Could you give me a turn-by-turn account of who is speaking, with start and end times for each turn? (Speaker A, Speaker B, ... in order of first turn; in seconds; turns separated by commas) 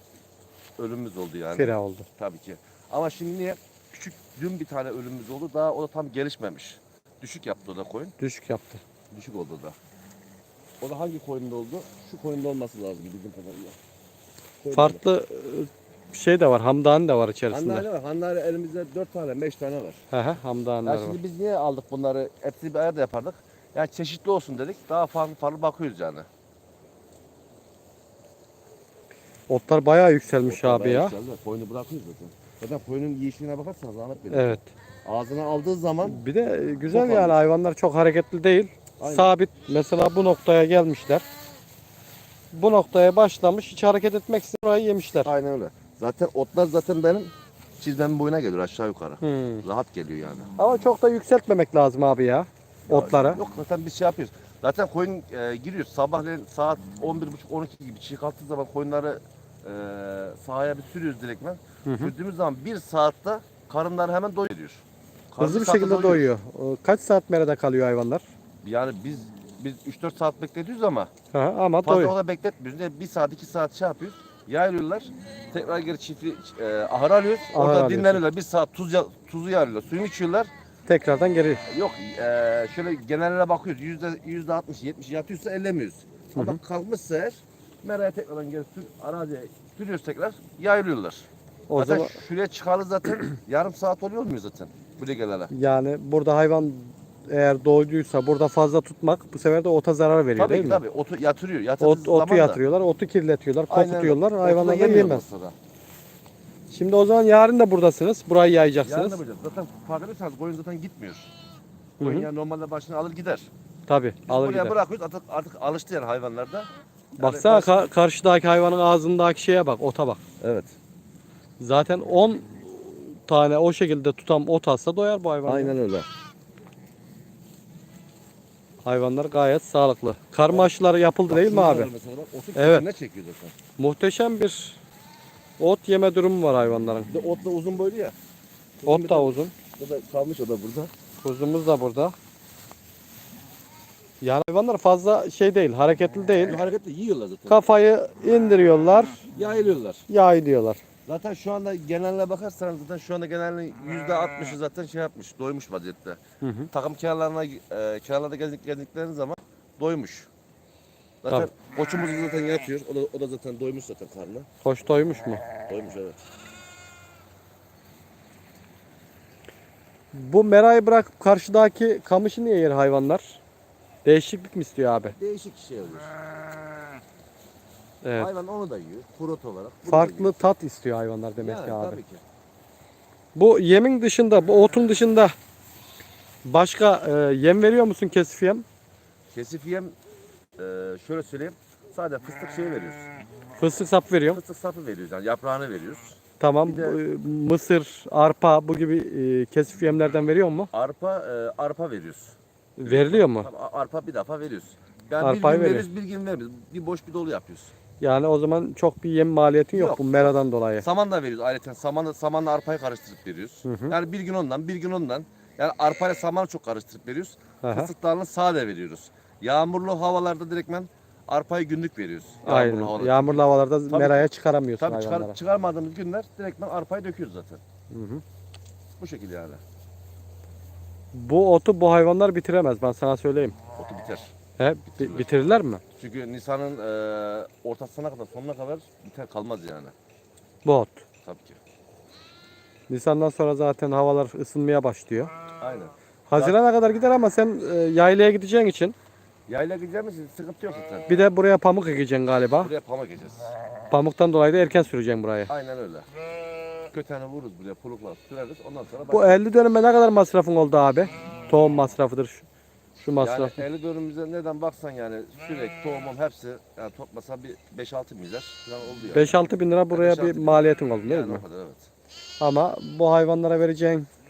Speaker A: 0.8-8.1, Speaker B: 1.6-2.1, Speaker B: 8.2-8.8, Speaker A: 9.1-9.8, Speaker A: 10.8-13.8, Speaker A: 14.6-15.0, Speaker B: 14.7-17.9, Speaker A: 17.5-20.0, Speaker B: 20.1-21.2, Speaker A: 20.8-26.3, Speaker B: 29.5-31.1, Speaker A: 30.4-36.2, Speaker B: 34.3-34.6, Speaker B: 36.0-41.2, Speaker A: 36.9-37.4, Speaker A: 39.0-39.3, Speaker B: 42.5-45.3, Speaker A: 45.2-50.5, Speaker B: 49.2-49.6, Speaker B: 50.6-53.4, Speaker A: 52.9-66.3, Speaker B: 61.9-62.1, Speaker B: 65.4-68.2, Speaker A: 68.6-71.1, Speaker B: 71.3-72.1, Speaker A: 71.8-80.5, Speaker B: 77.5-78.2, Speaker B: 80.9-81.6, Speaker A: 81.7-95.5, Speaker B: 91.7-92.2, Speaker B: 95.5-100.8, Speaker A: 100.4-102.6, Speaker B: 101.8-105.2, Speaker A: 103.7-105.5, Speaker B: 106.7-109.2, Speaker A: 108.8-111.3, Speaker B: 112.0-112.3, Speaker A: 112.0-113.5, Speaker B: 113.9-114.7, Speaker A: 114.3-117.9, Speaker B: 117.2-120.2, Speaker A: 120.4-120.7, Speaker B: 121.6-125.7, Speaker A: 125.5-126.1, Speaker B: 128.8-131.9, Speaker A: 130.5-130.7, Speaker A: 131.3-133.5, Speaker B: 132.6-132.8, Speaker B: 133.8-134.8, Speaker B: 135.6-137.1, Speaker A: 137.1-138.1, Speaker A: 138.8-140.9, Speaker B: 138.8-139.5, Speaker B: 141.2-142.1, Speaker B: 144.2-146.6, Speaker A: 146.4-147.7, Speaker B: 147.5-149.2, Speaker A: 149.3-150.0, Speaker B: 150.1-150.8, Speaker A: 151.1-156.2, Speaker B: 156.4-156.7, Speaker A: 156.7-160.3, Speaker A: 161.2-164.5, Speaker B: 164.6-165.4, Speaker A: 165.6-166.2, Speaker B: 170.1-173.4, Speaker B: 174.0-175.1, Speaker A: 175.1-176.1, Speaker B: 178.0-178.3, Speaker A: 178.1-180.4, Speaker B: 179.9-182.0, Speaker A: 181.4-182.2, Speaker B: 183.3-185.3, Speaker B: 186.4-188.7, Speaker A: 189.3-189.9, Speaker A: 190.6-193.1, Speaker B: 193.6-194.4, Speaker A: 194.3-197.0, Speaker B: 196.4-200.7, Speaker A: 200.7-207.7, Speaker B: 202.8-203.5, Speaker B: 205.2-205.9, Speaker B: 208.0-210.8, Speaker A: 209.7-227.6, Speaker B: 213.6-213.9, Speaker B: 217.6-217.9, Speaker B: 222.4-225.4, Speaker B: 227.9-228.2, Speaker A: 229.0-229.6, Speaker B: 231.1-233.5, Speaker A: 233.7-234.3, Speaker B: 234.6-235.8, Speaker A: 234.9-235.3, Speaker A: 235.9-239.9, Speaker B: 240.6-241.0, Speaker A: 241.2-241.6, Speaker B: 242.9-245.3, Speaker A: 245.6-246.6, Speaker B: 246.3-248.9, Speaker A: 249.5-251.2, Speaker B: 251.1-252.7, Speaker A: 252.6-253.5, Speaker B: 253.9-255.5, Speaker A: 255.5-256.1, Speaker A: 256.9-259.3, Speaker B: 259.1-262.5, Speaker B: 263.0-263.6, Speaker A: 263.2-271.9, Speaker B: 269.1-271.4, Speaker B: 272.4-274.1